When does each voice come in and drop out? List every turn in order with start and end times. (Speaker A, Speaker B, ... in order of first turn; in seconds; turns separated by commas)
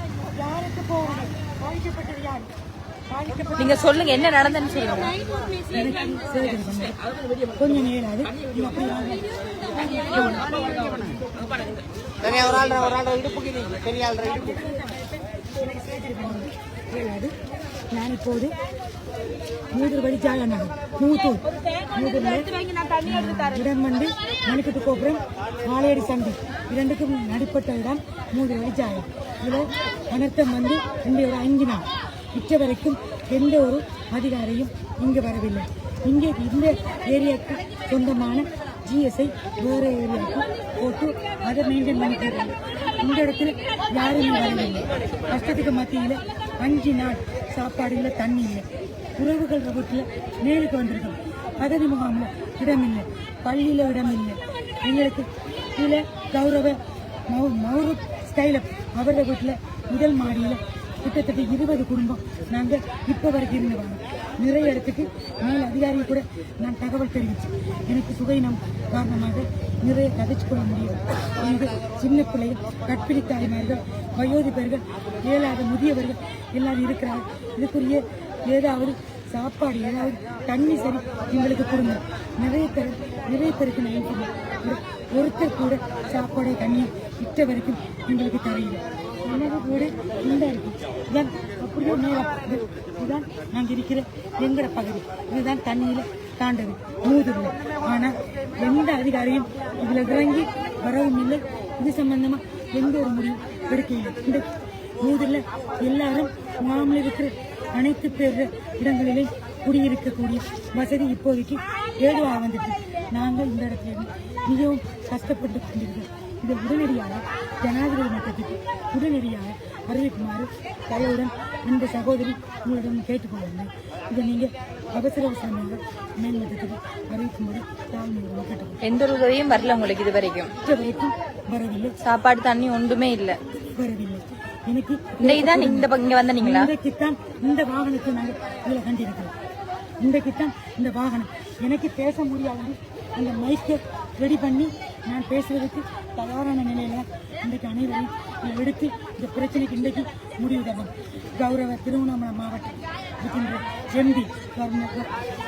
Speaker A: 0.3-2.5, Speaker A: 3.1-3.9, Speaker B: 3.6-5.2, Speaker A: 5.7-6.9, Speaker A: 7.5-10.9, Speaker C: 12.2-14.5, Speaker A: 14.2-17.3, Speaker A: 17.9-18.5, Speaker A: 19.7-48.6, Speaker A: 49.2-104.5, Speaker A: 105.0-128.8, Speaker B: 128.8-130.5, Speaker A: 130.6-131.9, Speaker B: 132.0-133.3, Speaker A: 133.7-139.3, Speaker B: 135.2-136.7, Speaker A: 140.0-155.1